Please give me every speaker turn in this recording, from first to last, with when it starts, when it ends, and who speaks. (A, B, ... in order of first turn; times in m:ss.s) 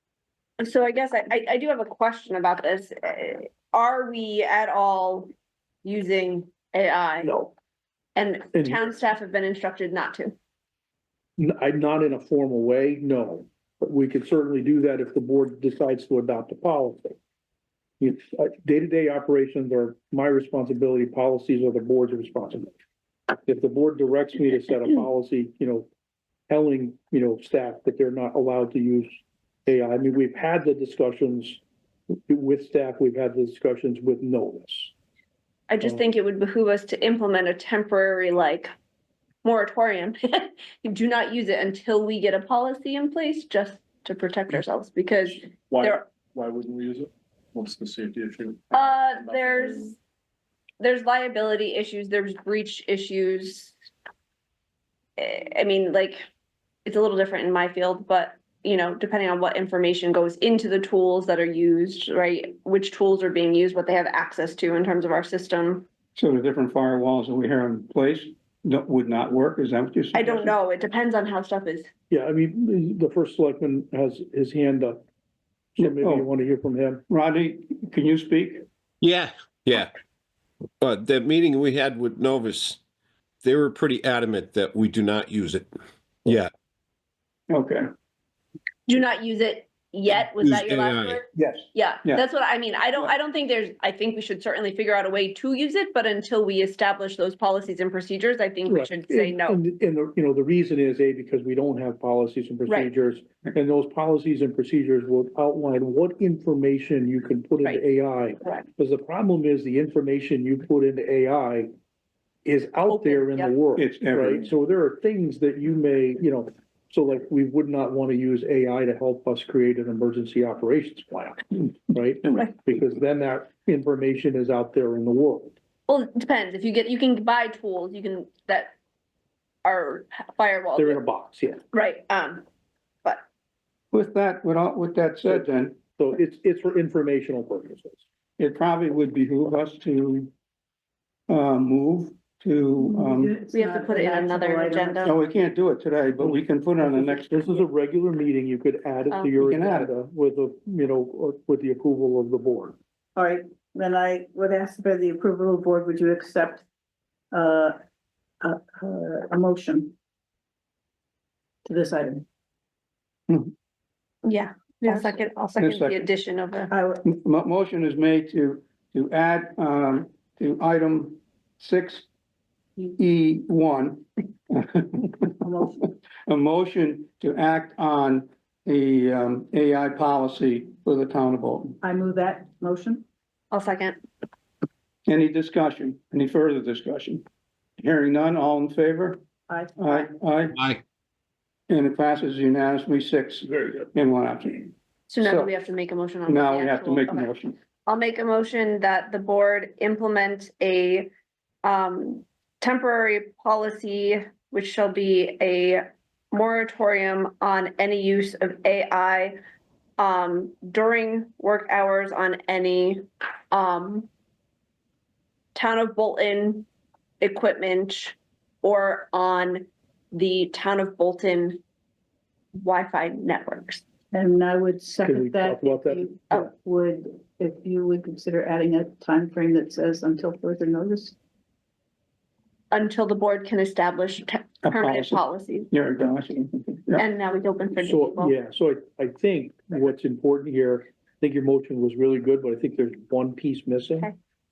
0:00.6-0:05.3 A
0:05.8-0:07.3 A
0:07.2-0:07.5 B
0:08.2-0:10.3 A
0:08.5-0:08.8 B
0:11.4-0:17.2 B
0:18.0-0:22.8 B
0:23.4-0:25.9 B
0:26.5-0:31.6 B
0:32.3-0:34.9 B
0:35.7-0:38.7 A
0:39.4-0:46.0 A
0:45.7-0:49.8 C
0:48.7-0:50.0 A
0:50.8-0:53.7 A
0:55.2-0:56.2 A
0:56.8-1:05.8 A
1:06.2-1:10.5 D
1:10.1-1:11.9 A
1:12.1-1:15.0 B
1:15.8-1:17.0 B
1:15.8-1:16.3 D
1:17.1-1:18.6 D
1:19.0-1:19.9 E
1:20.8-1:22.8 E
1:23.4-1:25.7 E
1:26.2-1:26.5 E
1:27.5-1:27.9 D
1:28.9-1:39.6 A
1:30.4-1:31.2 E
1:31.3-1:32.2 D
1:38.7-1:51.7 B
1:52.4-2:05.6 B
1:52.9-1:53.5 A
1:53.8-1:54.5 D
2:05.9-2:08.8 A
2:09.6-2:11.0 A
2:10.8-2:11.6 B
2:11.7-2:12.4 A
2:13.9-2:15.8 D
2:16.0-2:18.0 B
2:18.4-2:20.3 D
2:21.3-2:23.3 D
2:22.8-2:25.1 F
2:23.5-2:25.1 A
2:25.0-2:27.3 D
2:26.2-2:32.8 B
2:29.4-2:29.9 D
2:33.2-2:36.6 F
2:37.3-2:37.8 F
2:38.4-2:39.9 F
2:41.6-2:42.2 F
2:44.2-2:46.7 A
2:45.6-2:46.1 D
2:46.7-2:47.0 F
2:47.0-2:52.1 D
2:53.0-2:55.3 D
2:55.4-2:55.8 F
2:56.3-3:01.8 D
3:01.8-3:03.0 F
3:03.5-3:04.0 A
3:05.1-3:07.2 D
3:07.8-3:09.2 D
3:09.5-3:09.9 F
3:09.8-3:10.6 D
3:11.7-3:15.5 D
3:15.1-3:17.3 A
3:16.3-3:17.6 D
3:17.9-3:21.1 A
3:21.6-3:29.4 A
3:30.0-3:34.1 A
3:35.6-3:36.7 A
3:37.2-3:41.6 A
3:42.6-3:43.8 A
3:44.1-3:51.2 F
3:45.0-3:46.4 B
3:52.7-3:55.7 A
3:54.6-3:57.0 D
3:57.0-3:58.3 A
3:57.8-4:04.1 B